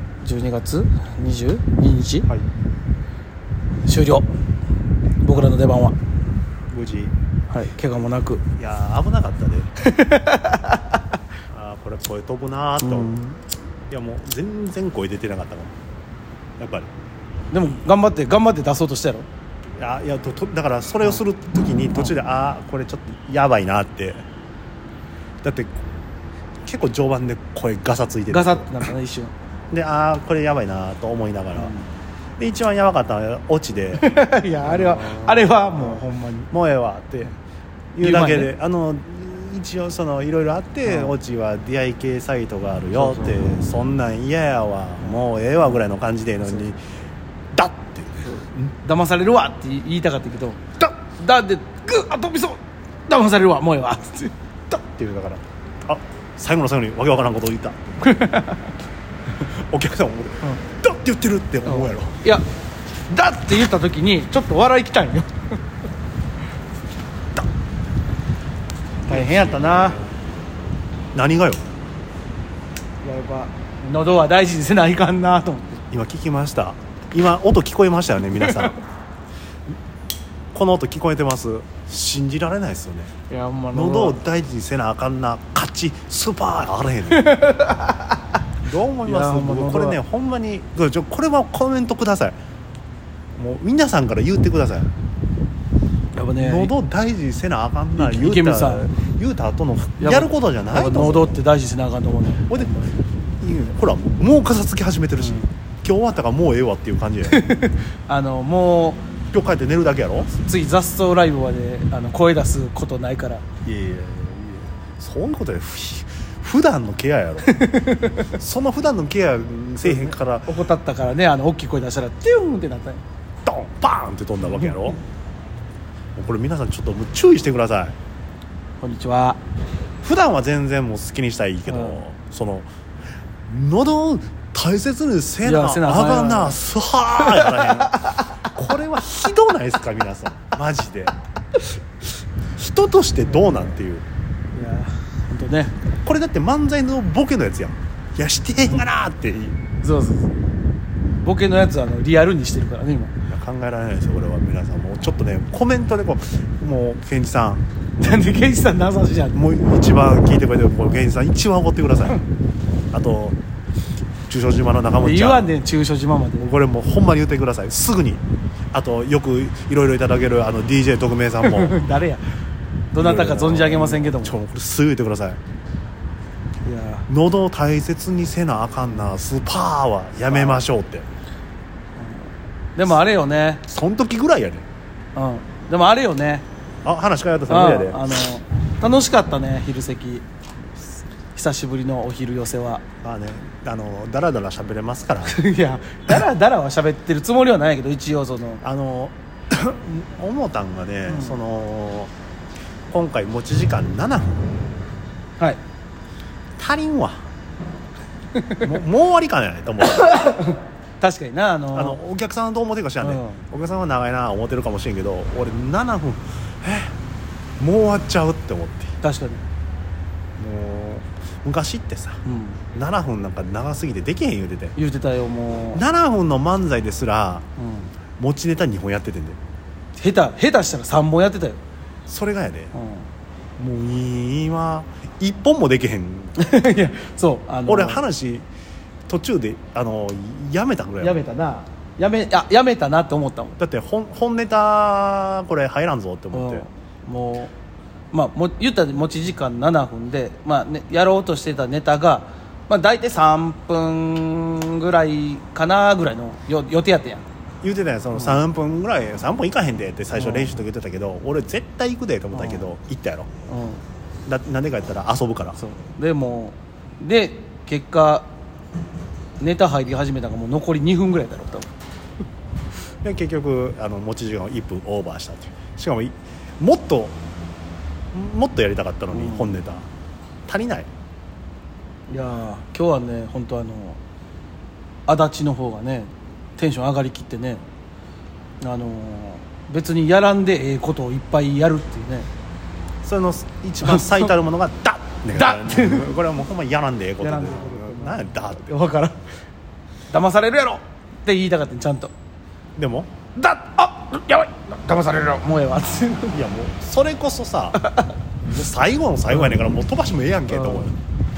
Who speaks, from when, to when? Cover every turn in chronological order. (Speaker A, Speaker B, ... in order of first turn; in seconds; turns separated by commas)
Speaker A: 0.2-2.3, Speaker A: 3.8-4.3, Speaker B: 5.1-5.6, Speaker A: 5.2-6.0, Speaker B: 6.7-7.2, Speaker A: 7.5-8.4, Speaker B: 8.6-9.7, Speaker A: 9.8-11.0, Speaker B: 11.5-13.2, Speaker A: 12.8-13.4, Speaker B: 13.9-15.8, Speaker B: 16.6-16.9, Speaker A: 17.5-19.3, Speaker B: 19.8-24.2, Speaker B: 25.4-25.8, Speaker B: 26.6-28.9, Speaker A: 28.3-29.3, Speaker B: 29.7-31.7, Speaker A: 31.6-31.9, Speaker B: 32.4-34.1, Speaker A: 34.0-36.5, Speaker B: 34.6-37.4, Speaker B: 37.9-46.8, Speaker A: 38.0-38.5, Speaker A: 40.9-41.1, Speaker A: 42.9-43.5, Speaker B: 47.5-48.5, Speaker A: 48.2-54.3, Speaker B: 54.7-57.8, Speaker A: 58.0-58.7, Speaker B: 59.4-62.2, Speaker A: 61.7-62.5, Speaker A: 63.1-65.4, Speaker A: 69.1-70.0, Speaker B: 69.1-69.4, Speaker B: 71.2-71.8, Speaker A: 73.0-75.8, Speaker B: 75.9-78.8, Speaker B: 80.5-83.2, Speaker A: 83.3-84.2, Speaker B: 83.7-87.4, Speaker A: 87.1-88.2, Speaker B: 88.6-92.4, Speaker A: 89.0-90.0, Speaker B: 93.4-94.9, Speaker A: 96.2-96.7, Speaker B: 96.4-101.4, Speaker A: 98.0-98.9, Speaker A: 100.0-103.0, Speaker B: 102.5-107.4, Speaker A: 105.2-105.5, Speaker A: 107.3-109.1, Speaker B: 109.3-110.3, Speaker A: 110.3-113.4, Speaker B: 113.6-117.6, Speaker A: 117.5-118.3, Speaker B: 118.3-120.5, Speaker A: 119.8-123.0, Speaker B: 123.4-125.0, Speaker A: 124.4-124.8, Speaker B: 126.2-128.0, Speaker A: 128.8-129.4, Speaker B: 130.0-132.7, Speaker A: 131.7-132.0, Speaker B: 133.5-141.2, Speaker A: 135.4-136.6, Speaker A: 137.2-138.4, Speaker B: 142.6-144.1, Speaker A: 144.5-145.8, Speaker B: 146.0-149.6, Speaker A: 149.8-150.3, Speaker A: 151.2-153.1, Speaker B: 153.3-157.7, Speaker A: 158.0-159.4, Speaker B: 159.3-162.2, Speaker B: 162.9-163.4, Speaker B: 164.3-165.5, Speaker A: 165.0-166.5, Speaker B: 166.4-171.8, Speaker A: 171.4-172.3, Speaker A: 172.9-174.4, Speaker B: 172.9-175.4, Speaker A: 176.7-177.1, Speaker B: 177.1-181.1, Speaker A: 180.3-180.6, Speaker A: 182.0-183.7, Speaker B: 183.7-184.7, Speaker A: 185.2-186.5, Speaker B: 186.8-188.0, Speaker A: 187.5-190.2, Speaker A: 191.3-192.8, Speaker B: 193.0-195.4, Speaker A: 195.3-198.6, Speaker B: 198.6-202.1, Speaker A: 201.1-201.4, Speaker B: 202.9-204.5, Speaker B: 206.6-207.3, Speaker A: 208.3-208.7, Speaker B: 208.6-210.4, Speaker A: 209.9-212.0, Speaker B: 211.7-217.0, Speaker A: 213.0-213.4, Speaker B: 217.6-218.9, Speaker A: 219.0-219.4, Speaker B: 220.4-224.8, Speaker A: 222.3-222.6, Speaker A: 224.8-225.8, Speaker B: 225.7-227.5, Speaker A: 227.6-227.9, Speaker B: 228.2-229.4, Speaker A: 230.0-231.6, Speaker B: 232.1-232.7, Speaker A: 232.7-233.1, Speaker B: 233.6-236.4, Speaker A: 236.4-238.0, Speaker B: 237.7-238.5, Speaker B: 239.1-241.2, Speaker A: 241.0-243.6, Speaker B: 243.6-246.7, Speaker A: 246.3-247.5, Speaker A: 248.1-257.2, Speaker B: 257.6-263.3, Speaker A: 258.1-258.4, Speaker A: 260.1-260.6, Speaker A: 262.3-262.7, Speaker A: 263.5-263.8, Speaker B: 264.3-265.6, Speaker A: 265.6-268.3, Speaker A: 269.4-271.7, Speaker B: 273.0-277.2, Speaker B: 278.1-279.9, Speaker A: 279.1-279.6, Speaker B: 280.5-280.9, Speaker A: 282.1-284.0, Speaker A: 285.1-287.6, Speaker A: 288.6-292.3, Speaker B: 293.0-298.7, Speaker A: 293.8-294.4, Speaker A: 295.3-296.1, Speaker A: 297.2-299.2, Speaker A: 300.1-302.1, Speaker B: 302.8-303.1, Speaker A: 303.4-306.4, Speaker B: 306.3-307.8, Speaker A: 307.8-308.2, Speaker B: 308.4-310.9, Speaker A: 309.3-309.6, Speaker A: 310.5-310.9